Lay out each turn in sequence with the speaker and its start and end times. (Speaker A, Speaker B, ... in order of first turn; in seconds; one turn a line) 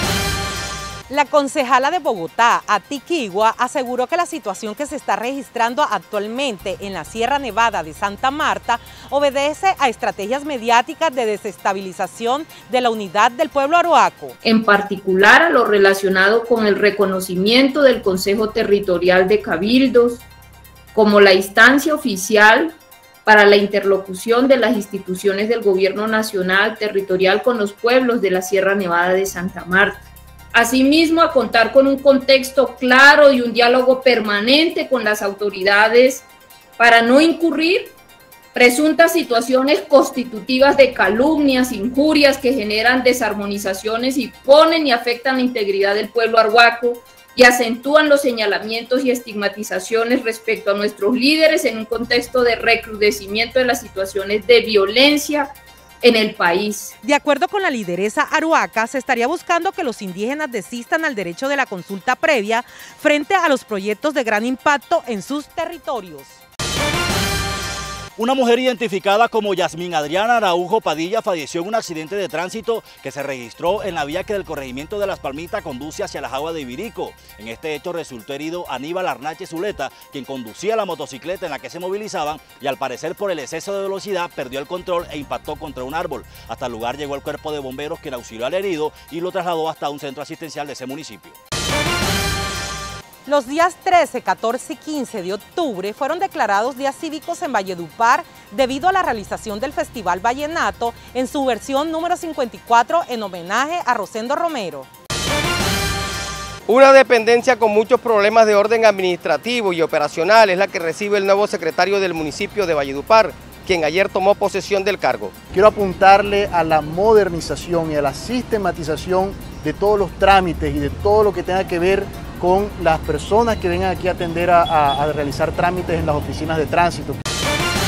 Speaker A: 1.1-14.3
Speaker B: 14.5-20.2
Speaker B: 20.9-22.7
Speaker B: 23.2-30.0
Speaker B: 30.5-36.2
Speaker B: 36.8-37.9
Speaker B: 38.5-55.5
Speaker B: 56.0-56.9
Speaker A: 57.0-66.4
Speaker C: 68.2-91.3
Speaker A: 93.2-104.9
Speaker D: 106.7-115.3
Speaker E: 115.5-127.2